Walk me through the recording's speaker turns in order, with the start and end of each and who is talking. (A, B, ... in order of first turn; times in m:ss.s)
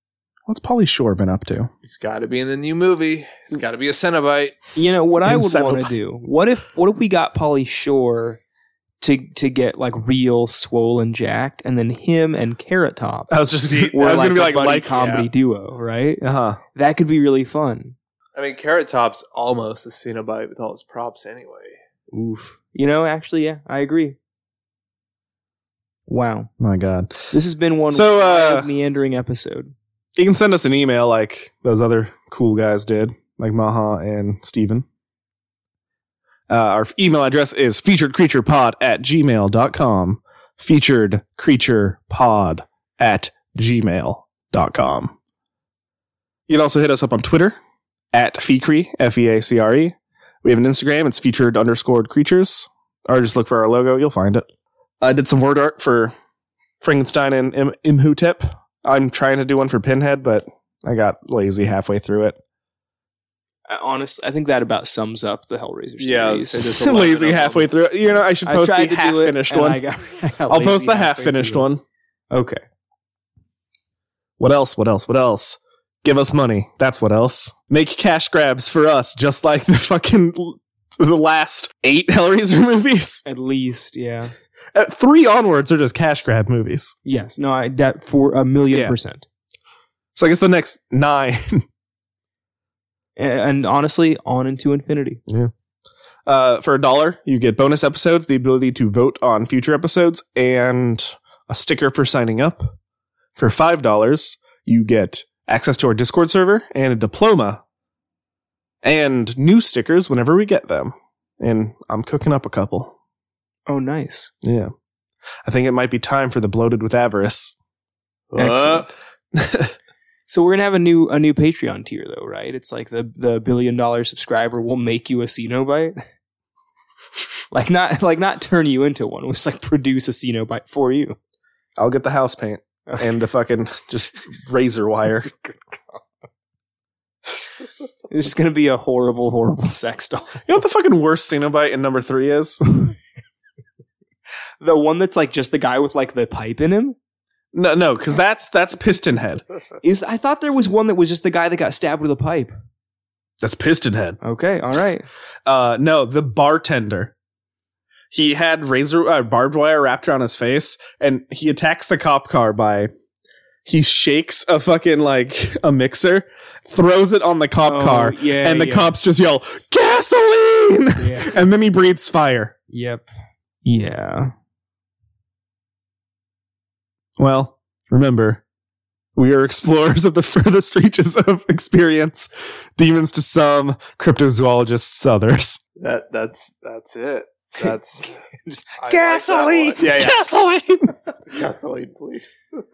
0:00.5-0:01.7 A
0:01.8-0:04.6 B
0:04.8-0:08.4 C
0:05.2-0:05.9 A
0:09.0-0:13.4 C
0:13.3-0:15.0 A
0:13.5-0:15.3 B
0:13.9-0:16.2 C
0:16.2-0:16.6 A
0:16.7-0:18.0 C
0:18.4-0:21.8 B
0:22.1-0:24.2 C
0:26.1-0:26.5 C
0:26.6-0:27.3 A
0:27.3-0:29.7 C
0:27.9-0:28.7 A
0:30.2-0:34.8 A
0:36.5-0:45.1 A
0:46.5-0:47.6 A
0:48.1-0:54.4 A
0:55.0-0:56.1 A
0:56.8-1:02.4 A
1:03.7-1:06.7 C
1:06.0-1:07.7 B
1:06.8-1:09.8 A
1:08.4-1:11.7 C
1:10.5-1:11.8 A
1:12.3-1:12.6 C
1:14.4-1:23.2 A
1:23.2-1:24.3 C
1:24.7-1:26.9 A
1:27.0-1:29.2 C
1:28.7-1:29.0 A
1:30.1-1:31.6 A
1:33.2-1:35.2 C
1:36.2-1:42.7 A
1:43.4-1:47.6 A
1:48.8-1:52.9 A
1:53.7-1:54.3 C
1:54.4-1:54.7 A
1:55.4-1:57.6 A
1:58.3-1:58.9 B
1:58.4-1:58.9 C
1:59.3-1:59.7 A
2:00.3-2:06.0 C
2:07.5-2:11.2 C
2:11.8-2:15.3 A
2:15.3-2:16.0 C
2:18.1-2:20.4 C
2:20.4-2:22.6 A
2:22.7-2:22.9 C
2:24.6-2:27.0 C
2:27.5-2:29.4 A
2:29.8-2:32.5 C
2:33.4-2:34.2 A
2:34.2-2:35.0 C
2:35.4-2:37.1 A
2:38.1-2:42.9 A
2:43.6-2:52.5 A
2:47.6-2:49.0 C
2:51.0-2:51.3 C
2:52.7-2:53.1 C
2:53.6-2:54.3 C
2:57.2-2:58.4 A
2:59.2-3:05.6 A
3:05.8-3:08.1 B
3:07.6-3:09.9 C
3:08.8-3:10.1 B
3:09.8-3:10.9 A
3:11.3-3:12.4 B